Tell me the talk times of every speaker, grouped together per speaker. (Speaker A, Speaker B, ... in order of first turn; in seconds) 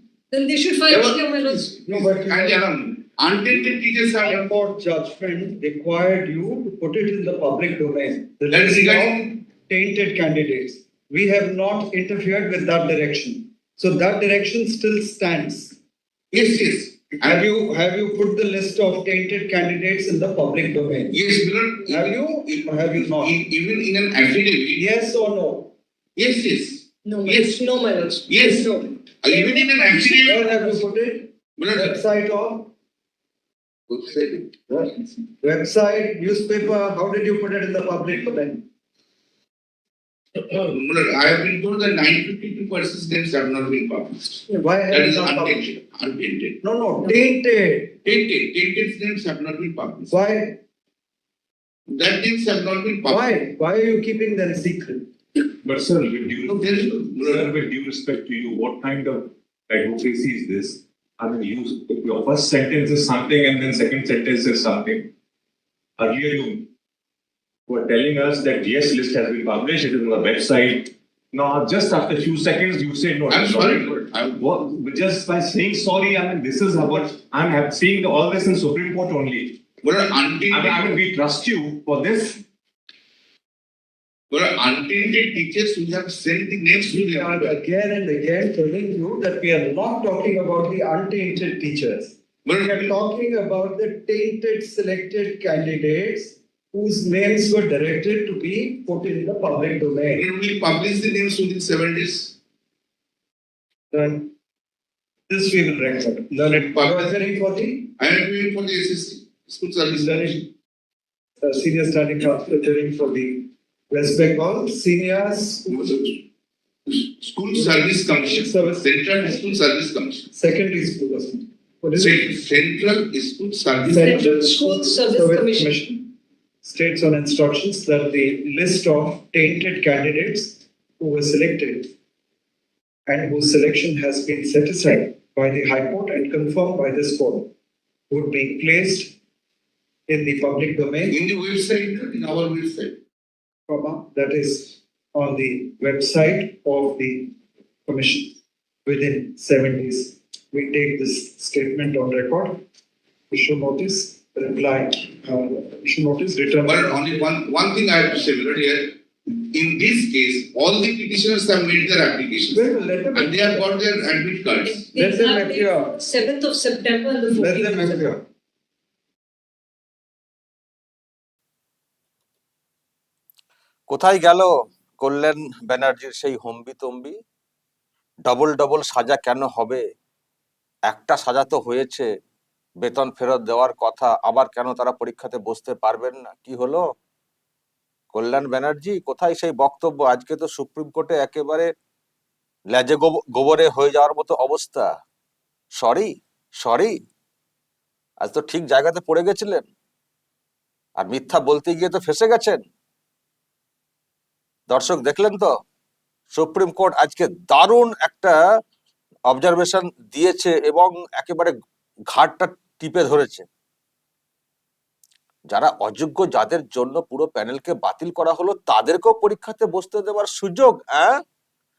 Speaker A: 0.3-1.6, 27.2-28.7, 124.3-125.7, 164.9-168.1
Speaker B: 0.9-4.5, 8.5-9.3, 16.3-17.4, 21.1-24.8, 26.2-27.7, 28.3-30.5, 31.6-32.0, 33.9-35.1, 40.4-46.6, 48.0-50.1, 51.9-53.3, 56.5-57.5, 73.3-74.4, 79.8-80.9, 84.3-87.5, 92.5-92.9, 100.1-102.3, 106.5-106.9, 108.0-110.4, 115.7-116.2, 116.9-120.3, 122.0-124.1, 141.1-142.9, 156.7-164.8
Speaker C: 1.9-2.6, 4.2-15.8, 17.2-21.2, 21.9-23.4, 24.8-25.7, 30.2-32.7, 35.4-38.6, 44.5-45.6, 46.6-48.0, 50.1-50.6, 53.1-55.0, 86.9-100.2, 103.9-104.3, 105.3-107.9, 110.0-110.4, 111.4-116.1, 117.5-119.4, 120.3-122.2, 123.8-126.1, 126.6-131.9, 133.1-137.5, 138.1-139.1, 140.1-141.2, 143.7-147.3, 147.9-152.6, 153.3-157.3, 162.5-163.7, 164.9-165.9, 167.3-168.2
Speaker D: 55.6-65.1, 66.0-66.7, 67.7-79.6, 80.5-82.4
Speaker E: 173.9-177.2, 178.3-179.8, 180.9-182.1, 182.8-186.8, 188.1-191.7, 192.7-194.9, 195.8-196.9, 198.2-199.7, 201.0-202.6, 204.7-205.5, 206.3-208.4, 209.3-211.5, 212.1-213.5, 215.5-221.2